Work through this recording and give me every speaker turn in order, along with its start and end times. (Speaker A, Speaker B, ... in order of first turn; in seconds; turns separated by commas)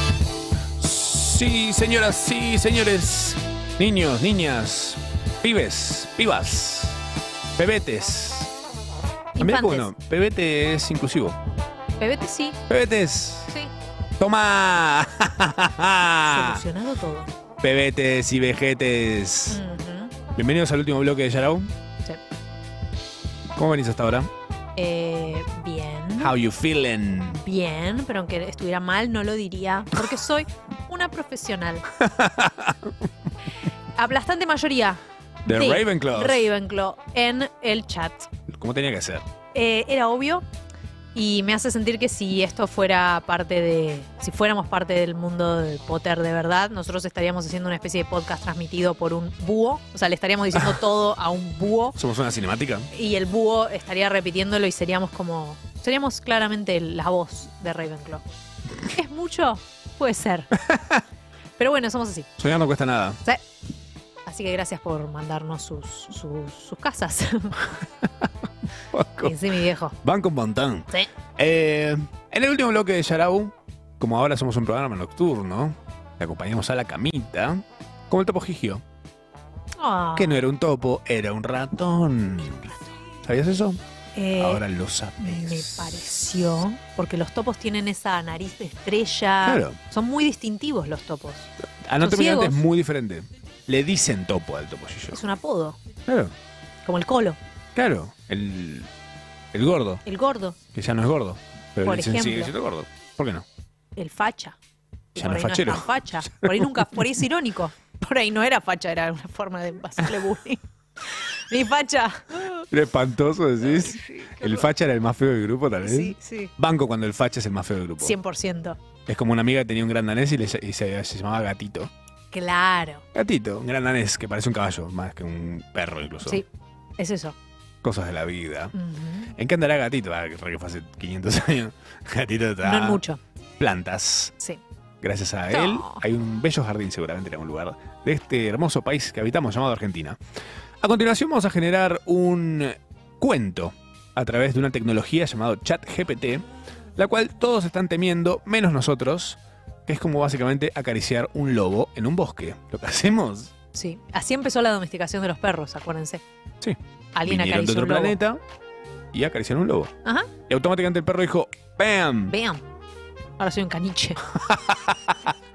Speaker A: 0.8-7.0, Speaker A: 7.6-8.5, Speaker B: 9.3-9.9, Speaker A: 9.4-11.4, Speaker B: 12.0-12.6, Speaker A: 12.7-13.5, Speaker A: 14.2-16.6, Speaker B: 16.3-17.3, Speaker A: 17.6-19.6, Speaker B: 19.5-20.1, Speaker A: 20.4-21.7, Speaker A: 23.5-24.3, Speaker B: 24.8-26.3, Speaker A: 26.2-27.4, Speaker B: 27.4-31.8, Speaker A: 32.0-32.9, Speaker B: 34.0-38.3, Speaker A: 35.5-36.5, Speaker A: 38.5-39.2, Speaker B: 39.5-40.4, Speaker B: 41.1-52.0, Speaker A: 51.9-52.9, Speaker B: 52.9-58.2, Speaker B: 58.8-60.5, Speaker A: 60.6-61.0, Speaker B: 61.6-62.3, Speaker A: 62.4-63.2, Speaker B: 64.2-67.6, Speaker A: 68.9-69.4, Speaker B: 69.2-69.9, Speaker A: 70.0-78.8, Speaker B: 79.8-80.4, Speaker A: 80.2-83.8, Speaker B: 84.1-84.6, Speaker A: 84.4-86.1, Speaker B: 85.2-91.5, Speaker A: 89.4-89.8, Speaker A: 91.8-95.2, Speaker B: 92.0-92.6, Speaker B: 95.1-95.8, Speaker A: 96.1-96.3, Speaker B: 96.8-97.4, Speaker A: 97.7-98.9, Speaker A: 99.5-100.0, Speaker B: 100.0-100.6, Speaker A: 100.7-103.5, Speaker B: 101.8-102.5, Speaker B: 104.0-104.6, Speaker B: 105.1-110.6, Speaker A: 105.2-107.0, Speaker B: 111.5-112.6, Speaker A: 112.7-118.2, Speaker B: 113.7-114.7, Speaker B: 115.8-116.5, Speaker B: 118.0-118.8, Speaker A: 119.0-121.9, Speaker B: 122.3-123.0, Speaker A: 123.1-126.4, Speaker B: 127.0-127.3, Speaker A: 127.8-128.7, Speaker B: 128.7-129.3, Speaker A: 129.3-133.0, Speaker B: 132.6-133.2, Speaker A: 133.6-134.3, Speaker A: 135.0-140.2, Speaker B: 135.5-136.0, Speaker A: 140.8-153.5, Speaker B: 153.7-156.2, Speaker A: 156.6-158.4, Speaker B: 157.1-158.2, Speaker A: 159.1-159.9, Speaker B: 160.0-160.3, Speaker A: 160.5-162.3, Speaker B: 162.3-162.6, Speaker B: 163.4-164.3, Speaker A: 164.3-165.2